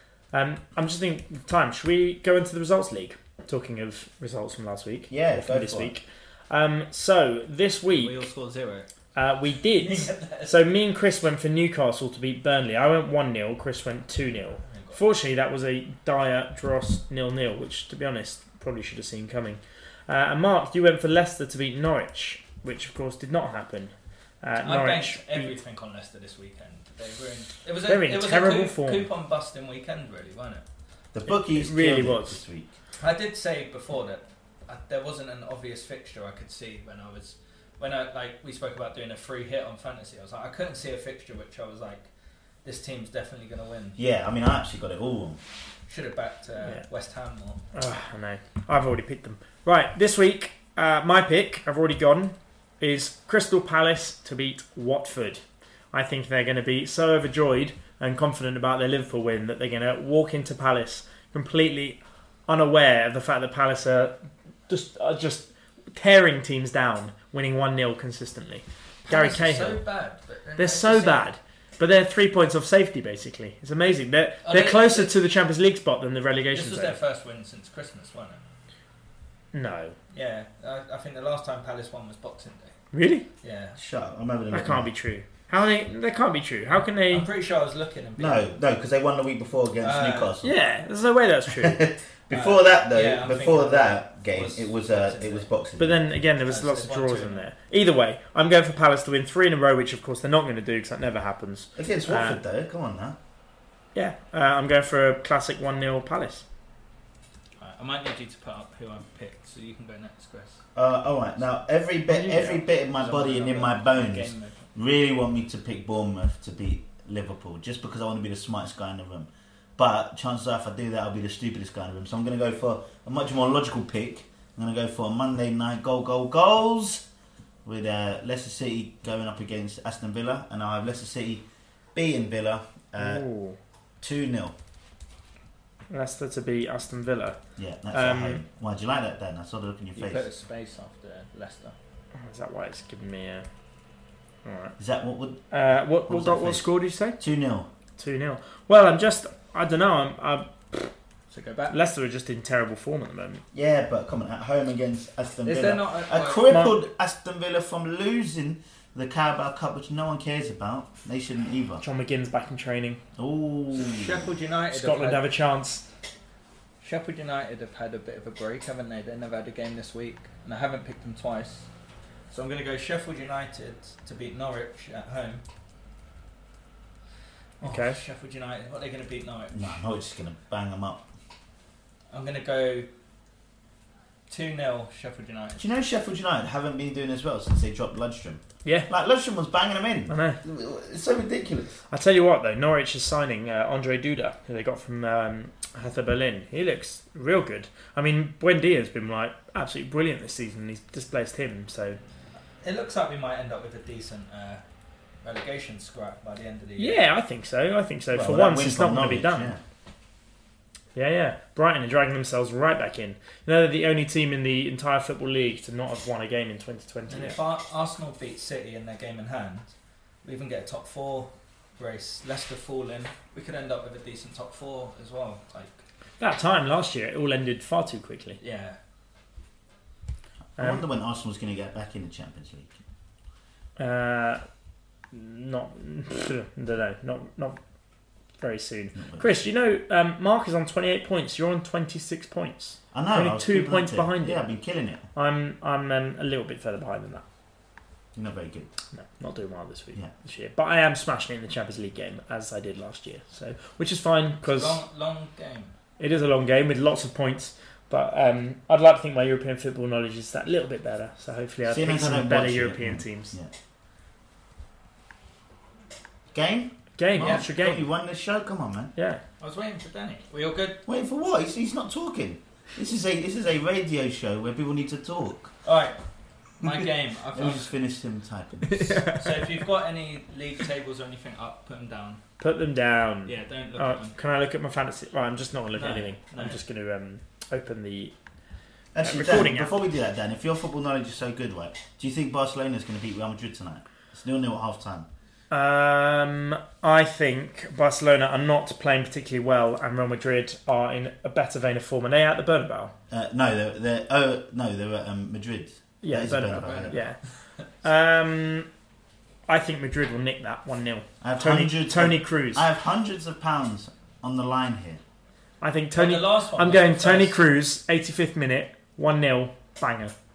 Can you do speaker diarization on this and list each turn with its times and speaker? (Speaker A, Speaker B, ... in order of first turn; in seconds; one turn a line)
Speaker A: 0.3-8.2
Speaker B: 5.1-5.9
Speaker C: 7.9-8.9
Speaker A: 9.2-25.6
Speaker C: 9.8-10.6
Speaker C: 14.6-15.0
Speaker C: 24.6-30.6
Speaker A: 27.9-29.1
Speaker B: 31.1-32.7
Speaker A: 31.3-32.4
Speaker C: 33.0-42.1
Speaker C: 42.6-44.0
Speaker B: 44.0-45.4
Speaker C: 45.9-47.6
Speaker A: 47.7-55.4
Speaker A: 55.9-64.2
Speaker A: 64.7-69.8
Speaker C: 69.0-71.3
Speaker A: 70.6-77.0
Speaker C: 74.5-75.2
Speaker C: 76.5-78.4
Speaker A: 79.5-80.0
Speaker C: 80.1-82.8
Speaker A: 82.9-83.3
Speaker C: 83.4-83.8
Speaker B: 83.8-84.9
Speaker A: 84.5-87.3
Speaker C: 87.1-88.5
Speaker B: 88.2-90.5
Speaker C: 89.8-90.3
Speaker A: 90.4-91.8
Speaker B: 91.5-96.0
Speaker C: 92.3-95.5
Speaker A: 95.8-102.4
Speaker C: 96.5-97.5
Speaker B: 101.8-103.2
Speaker A: 104.0-106.5
Speaker C: 107.6-110.6
Speaker B: 110.8-127.1
Speaker A: 112.1-112.7
Speaker C: 113.0-114.7
Speaker B: 127.7-133.2
Speaker A: 133.0-133.6
Speaker B: 134.0-134.5
Speaker A: 135.9-137.4
Speaker B: 137.6-140.3
Speaker A: 137.9-138.4
Speaker C: 139.9-141.8
Speaker A: 142.2-143.5
Speaker A: 144.4-144.8
Speaker B: 144.8-145.4
Speaker A: 145.5-147.2
Speaker B: 146.1-147.7
Speaker A: 148.0-150.9
Speaker C: 151.3-151.8
Speaker A: 151.7-153.4
Speaker B: 153.5-161.8
Speaker C: 155.4-156.5
Speaker A: 156.5-156.8
Speaker A: 161.8-163.0
Speaker B: 163.2-164.3
Speaker C: 163.7-165.2
Speaker A: 164.7-165.8
Speaker C: 166.8-171.7
Speaker C: 172.3-175.4
Speaker A: 177.6-178.0
Speaker C: 177.6-179.8
Speaker B: 179.5-181.1
Speaker C: 182.1-182.9
Speaker C: 184.3-185.7
Speaker B: 185.6-191.8
Speaker A: 190.1-190.4
Speaker A: 191.9-202.0
Speaker C: 202.6-204.6
Speaker C: 205.2-207.0
Speaker A: 206.8-209.6
Speaker B: 208.1-209.6
Speaker A: 211.0-217.4
Speaker C: 217.1-225.8
Speaker A: 226.2-228.4
Speaker C: 228.4-228.8
Speaker B: 230.6-232.7
Speaker A: 230.6-230.8
Speaker A: 233.8-234.4
Speaker A: 235.1-237.6
Speaker A: 238.4-244.4
Speaker B: 239.0-239.4
Speaker B: 242.9-245.1
Speaker A: 245.2-247.2
Speaker B: 248.2-248.7
Speaker A: 248.9-254.8
Speaker C: 254.4-255.8
Speaker A: 256.0-263.3
Speaker B: 261.6-263.5
Speaker B: 266.3-268.9
Speaker A: 267.0-267.9
Speaker C: 267.1-267.4
Speaker A: 269.0-269.2
Speaker C: 269.4-270.8
Speaker B: 270.9-275.5
Speaker C: 275.6-276.0
Speaker C: 276.6-277.7
Speaker B: 277.3-279.0
Speaker A: 278.7-279.5
Speaker C: 279.1-282.2
Speaker A: 282.4-288.1
Speaker C: 283.3-284.2
Speaker C: 285.7-286.6
Speaker B: 288.9-295.1
Speaker A: 289.0-289.7
Speaker A: 295.5-302.9
Speaker B: 303.1-307.0
Speaker A: 306.0-307.2
Speaker C: 306.6-307.7
Speaker A: 307.7-308.7
Speaker A: 309.5-312.7
Speaker B: 311.2-315.0
Speaker A: 315.6-320.1
Speaker C: 315.9-317.4